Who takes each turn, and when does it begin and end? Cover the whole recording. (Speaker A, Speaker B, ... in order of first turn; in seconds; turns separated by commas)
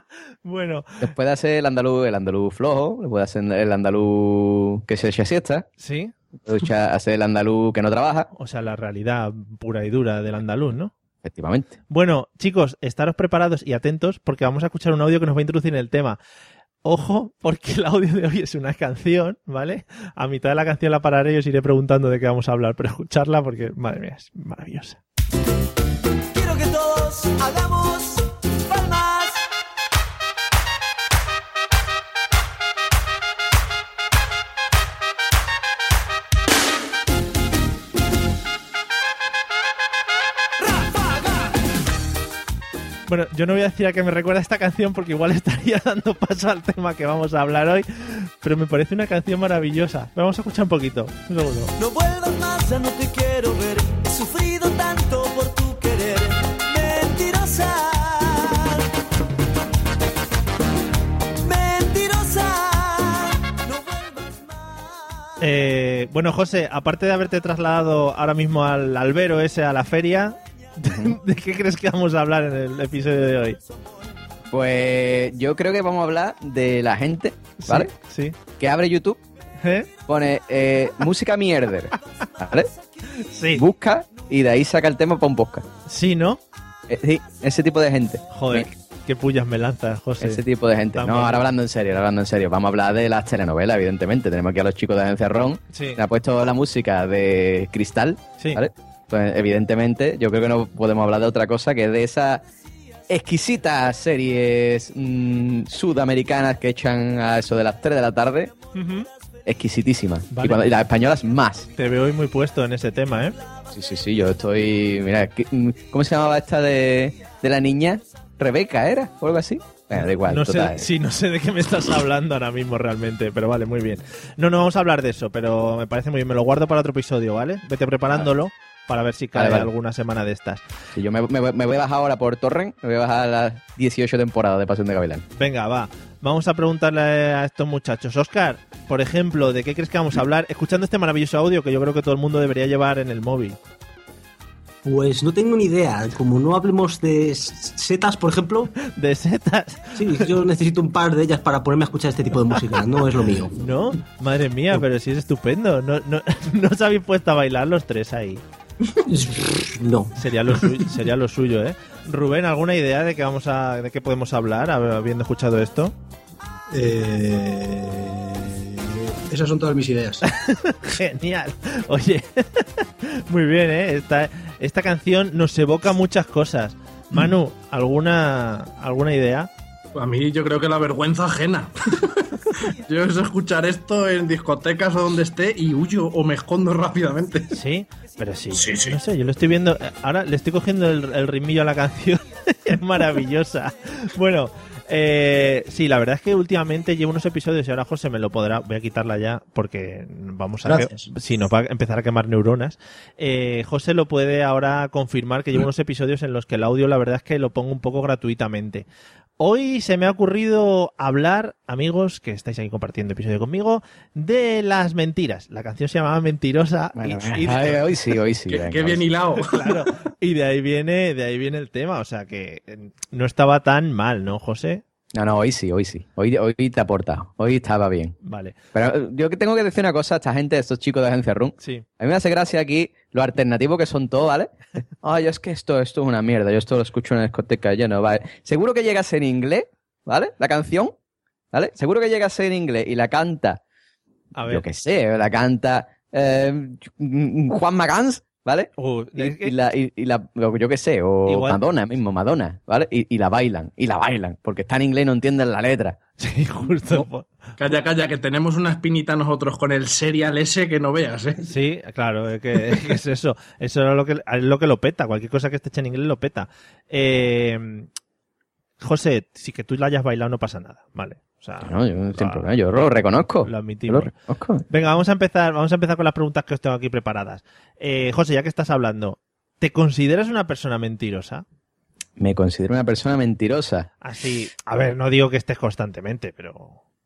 Speaker A: 0.4-1.1, Speaker B: 1.0-5.7, Speaker A: 5.8-6.1, Speaker B: 6.4-8.3, Speaker A: 8.3-10.9, Speaker B: 11.2-11.7, Speaker A: 11.9-16.2, Speaker A: 16.8-25.0, Speaker C: 26.3-29.4, Speaker A: 43.1-51.7, Speaker C: 51.8-58.9, Speaker C: 61.4-64.9, Speaker A: 65.4-73.6, Speaker B: 70.8-71.2, Speaker B: 74.5-77.9, Speaker A: 77.6-78.3, Speaker B: 78.6-79.2, Speaker A: 79.6-79.9, Speaker B: 80.1-82.7, Speaker A: 83.2-83.6, Speaker B: 83.5-85.6, Speaker A: 85.8-86.4, Speaker B: 86.9-88.7, Speaker A: 88.3-90.4, Speaker B: 90.2-102.4, Speaker A: 90.9-91.5, Speaker A: 95.7-96.0, Speaker A: 98.4-98.6, Speaker B: 103.1-108.5, Speaker A: 108.7-109.1, Speaker B: 109.5-111.7, Speaker A: 110.3-110.6, Speaker A: 111.8-113.4, Speaker B: 113.7-120.9, Speaker A: 120.0-130.6, Speaker B: 129.3-129.7, Speaker B: 130.9-135.2, Speaker A: 135.3-143.6, Speaker D: 144.8-148.7, Speaker A: 148.8-150.3, Speaker D: 149.9-153.5, Speaker A: 153.6-158.4, Speaker D: 159.1-160.1, Speaker A: 160.1-165.9, Speaker E: 166.7-170.2, Speaker A: 170.2-179.5, Speaker F: 179.9-187.5, Speaker A: 187.5-208.8, Speaker F: 188.5-189.0, Speaker E: 200.6-201.1, Speaker A: 209.4-217.9, Speaker B: 216.9-219.1, Speaker F: 218.5-219.7, Speaker A: 219.4-224.8, Speaker B: 225.1-228.2, Speaker A: 228.2-228.6, Speaker B: 228.7-240.9, Speaker A: 231.6-231.8, Speaker B: 241.5-243.6, Speaker A: 244.3-244.6, Speaker B: 244.5-256.0, Speaker A: 248.8-249.6, Speaker A: 251.2-251.6, Speaker A: 256.2-257.3, Speaker F: 257.6-261.4, Speaker A: 261.4-267.9, Speaker A: 268.8-272.5, Speaker B: 271.6-274.6, Speaker A: 273.4-274.1, Speaker A: 274.7-281.4, Speaker B: 282.2-283.9, Speaker A: 284.0-286.8